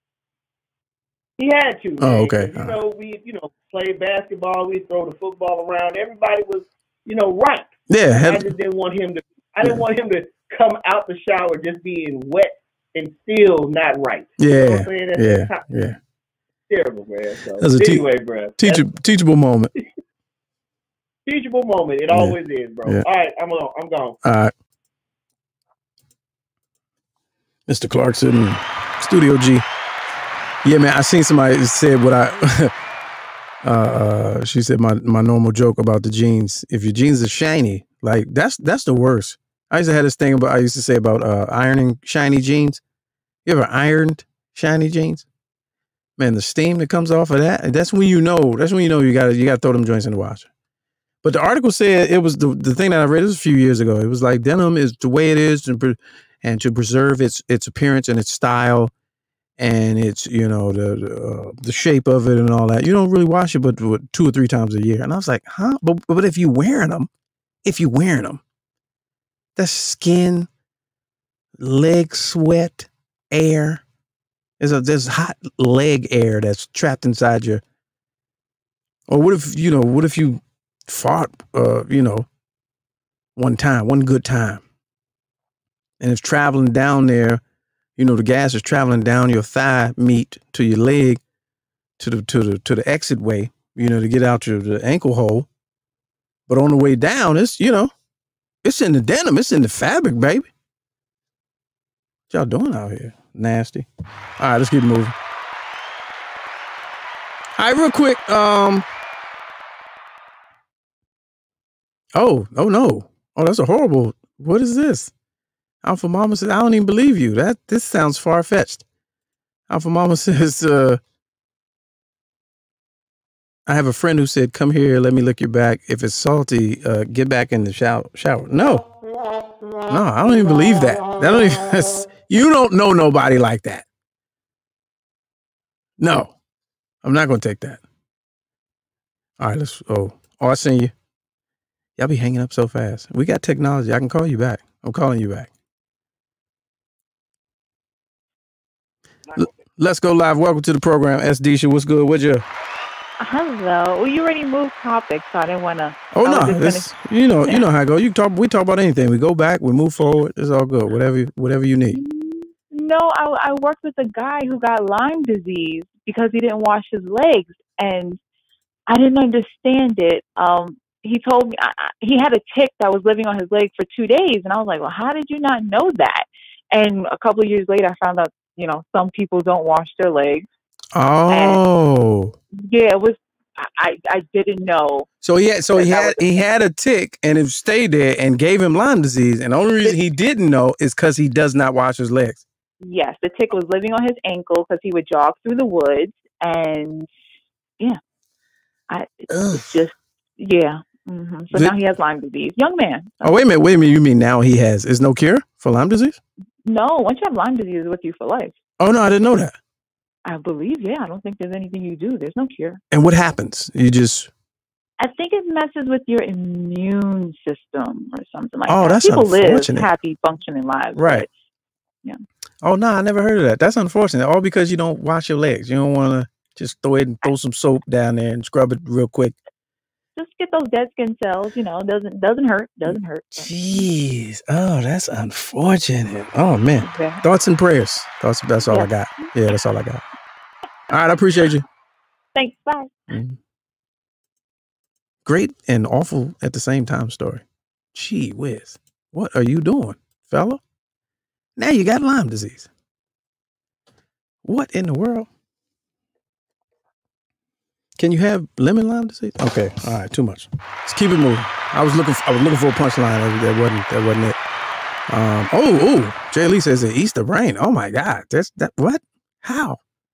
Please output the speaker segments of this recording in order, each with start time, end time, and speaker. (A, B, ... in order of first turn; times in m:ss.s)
0:01.4-0:15.6 A
0:02.0-0:02.8 B
0:07.9-0:08.5 B
0:14.4-0:16.0 B
0:16.7-0:18.8 A
0:17.6-0:18.1 B
0:18.6-0:19.7 B
0:21.3-0:24.2 A
0:22.1-0:23.1 B
0:24.2-0:24.5 B
0:27.7-0:29.6 B
0:30.6-0:32.7 B
0:33.6-0:42.8 B
0:43.4-0:45.3 B
0:46.2-0:50.5 B
0:51.2-0:58.9 B
0:59.6-1:07.1 B
1:07.6-1:08.4 B
1:09.6-1:10.5 B
1:11.6-1:13.8 B
1:14.6-1:17.6 B
1:19.1-1:22.3 B
1:23.4-1:24.6 B
1:26.0-1:27.4 B
1:28.0-1:31.2 B
1:32.0-1:35.5 B
1:36.5-1:37.9 B
1:38.6-1:40.5 B
1:42.3-1:43.9 B
1:44.4-1:45.2 B
1:47.6-1:48.9 B
1:52.2-1:55.1 B
1:55.8-1:58.8 B
1:59.7-2:01.0 B
2:03.7-2:08.8 B
2:09.9-2:13.9 B
2:16.0-2:16.3 B
2:17.0-2:17.8 B
2:19.4-2:20.9 B
2:22.0-2:25.5 B
2:29.4-2:32.5 B
2:33.2-2:36.9 C
2:36.1-2:42.0 B
2:41.9-2:48.2 C
2:48.9-3:00.5 C
3:00.9-3:02.4 B
3:01.3-3:01.6 C
3:02.6-3:05.1 C
3:05.2-3:12.4 B
3:05.8-3:06.2 C
3:12.8-3:17.1 C
3:18.9-3:23.4 C
3:19.3-3:19.8 B
3:23.2-3:26.2 B
3:26.6-3:28.6 C
3:28.8-3:29.5 B
3:30.3-3:32.8 C
3:32.9-3:34.3 B
3:35.0-3:41.3 C
3:38.7-3:39.9 B
3:41.0-3:41.3 B
3:42.6-3:49.4 B
3:50.2-3:53.9 C
3:52.9-4:00.0 B
3:56.8-3:57.2 C
3:58.6-3:59.3 C
4:00.9-4:01.6 B
4:02.4-4:02.9 C
4:03.1-4:03.4 B
4:05.2-4:10.6 B
4:11.6-4:12.7 B
4:14.4-4:15.3 B
4:18.0-4:24.4 B
4:25.1-4:29.8 B